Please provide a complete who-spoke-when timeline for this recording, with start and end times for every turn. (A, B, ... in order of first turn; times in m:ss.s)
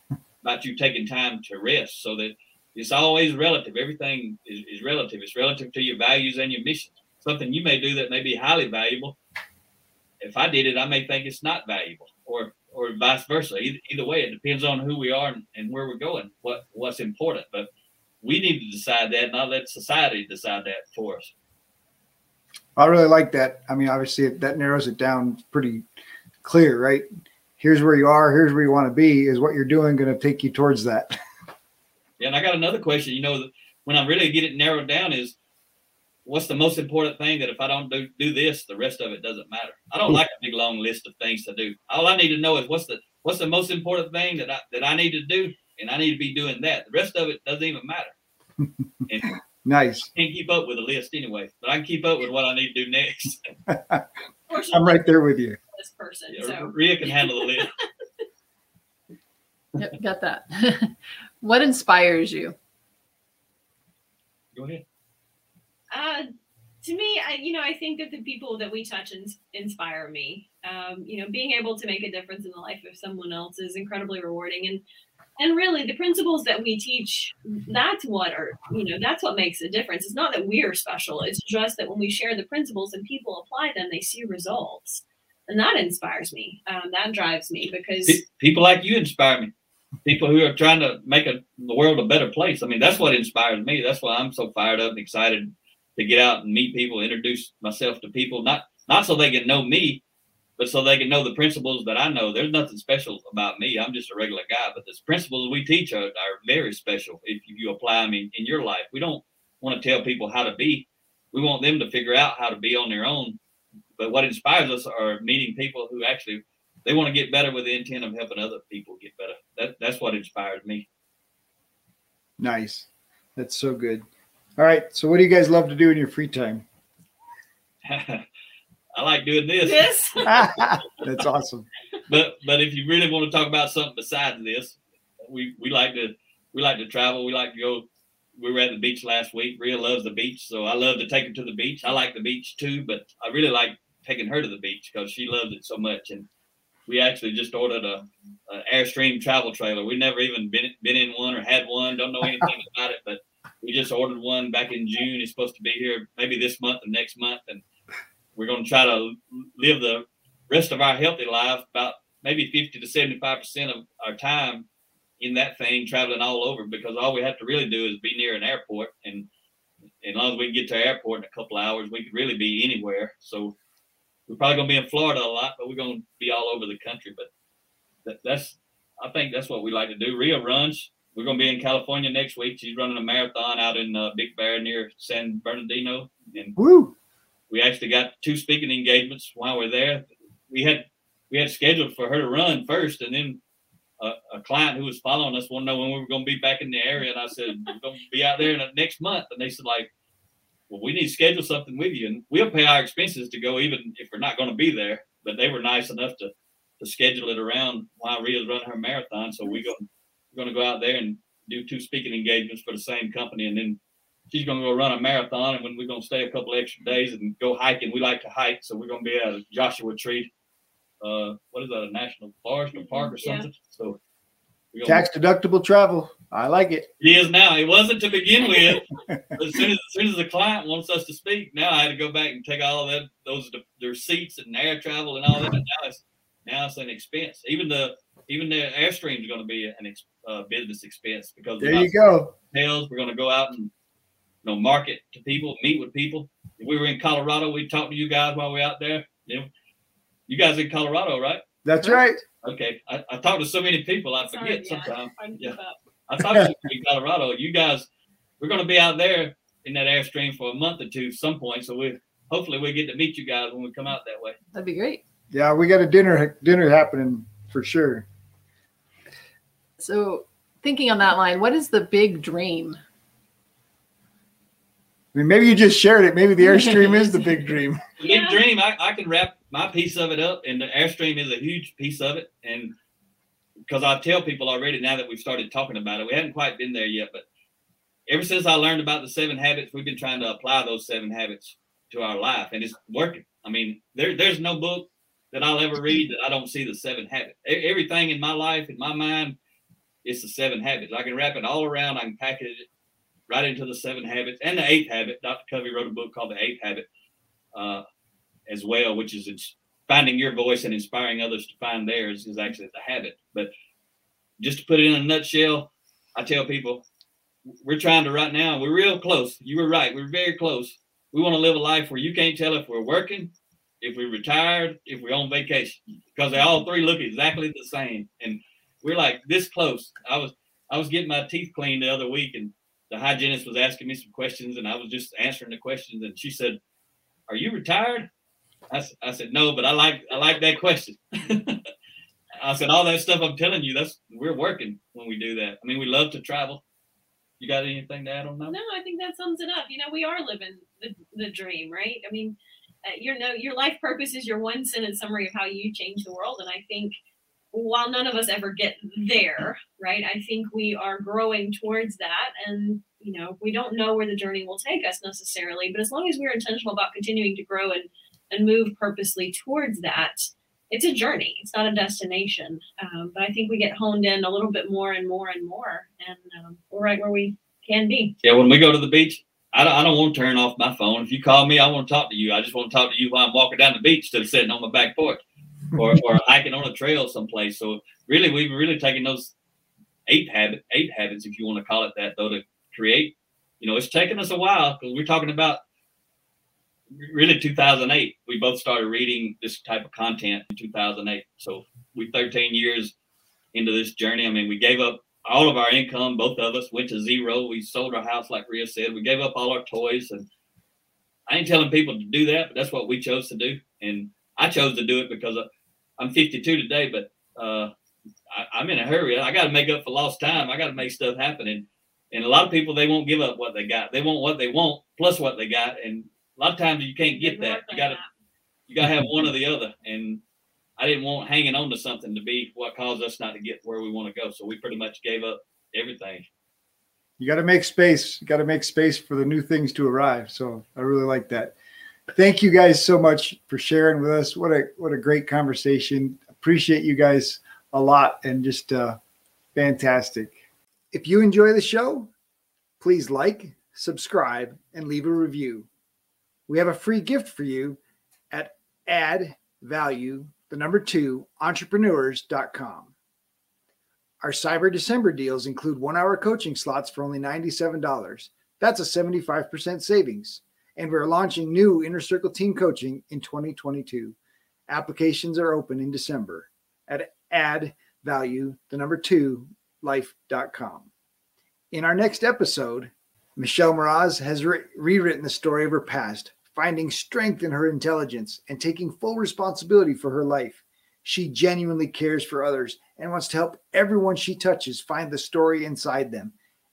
0:00.4-0:09.2 A
0:10.2-0:17.7 A
0:18.2-0:21.3 A
0:22.8-0:25.8 B
0:26.4-0:27.1 B
0:27.6-0:31.2 B
0:32.2-0:35.4 A
0:36.2-0:48.1 A
0:49.1-0:49.3 A
0:49.6-0:50.1 B
0:50.1-0:53.5 A
0:53.7-0:54.0 B
0:54.5-0:55.0 C
0:54.7-0:55.6 B
0:55.7-0:57.7 C
0:56.3-0:57.7 A
0:59.8-1:02.6 D
1:04.5-1:04.8 A
1:05.9-1:06.3 C
1:06.8-1:14.8 C
1:15.4-1:28.2 C
1:28.1-1:29.5 A
1:30.0-1:40.0 A
1:40.6-1:53.4 A
1:54.0-2:00.8 A
2:02.4-2:04.0 B
2:04.6-2:06.6 B
2:07.8-2:08.2 A
2:09.0-2:10.3 A
2:09.6-2:10.5 C
2:10.3-2:11.7 B
2:12.1-2:17.8 A
2:18.4-2:26.3 A
2:26.9-2:37.6 A
2:38.4-2:44.6 A
2:45.2-2:49.3 A
2:50.0-2:53.6 A
2:54.3-2:57.3 A
2:58.0-3:06.6 A
3:06.6-3:07.0 B
3:07.5-3:13.4 A
3:14.0-3:19.9 A
3:20.7-3:26.3 A
3:26.8-3:33.8 A
3:34.3-3:40.3 A
3:41.0-3:44.0 A
3:42.8-3:43.5 C
3:44.7-3:45.0 A
3:44.8-3:46.9 B
3:47.0-4:03.7 A
4:01.6-4:02.3 B
4:04.4-4:09.5 A
4:10.3-4:11.4 A
4:11.6-4:12.2 B
4:12.4-4:15.6 A
4:14.2-4:15.8 C
4:16.1-4:17.9 A
4:18.4-4:24.4 A
4:24.5-4:25.0 D
4:25.3-4:28.1 B
4:29.8-4:32.8 D
4:35.1-4:37.8 B
4:36.4-4:37.2 D
4:38.0-4:38.4 C
4:38.0-4:42.7 A
4:43.7-4:47.2 A
4:48.1-4:59.4 A
5:00.0-5:02.7 A
5:03.3-5:06.8 A
5:07.5-5:07.8 A
5:08.5-5:13.5 A
5:14.4-5:16.8 A
5:17.6-5:36.6 A
5:37.3-5:38.1 A
5:38.7-5:41.7 A
5:42.4-5:46.6 A
5:47.4-5:48.6 A
5:48.5-5:56.9 C
5:57.5-6:18.2 C
6:18.2-6:25.2 A
6:25.7-6:29.3 A
6:30.1-6:35.6 A
6:36.9-6:42.9 A
6:43.5-6:50.3 A
6:51.3-6:55.4 A
6:56.0-6:57.7 A
6:58.3-7:08.0 A
7:07.0-7:08.1 C
7:08.7-7:10.2 A
7:10.8-7:16.3 A
7:17.2-7:21.6 B
7:22.1-7:29.0 B
7:29.6-7:30.4 B
7:30.9-7:32.1 B
7:32.8-7:35.7 B
7:36.5-7:37.8 B
7:38.3-7:42.9 B
7:44.2-7:54.2 B
7:54.7-8:00.9 B
8:01.7-8:16.3 B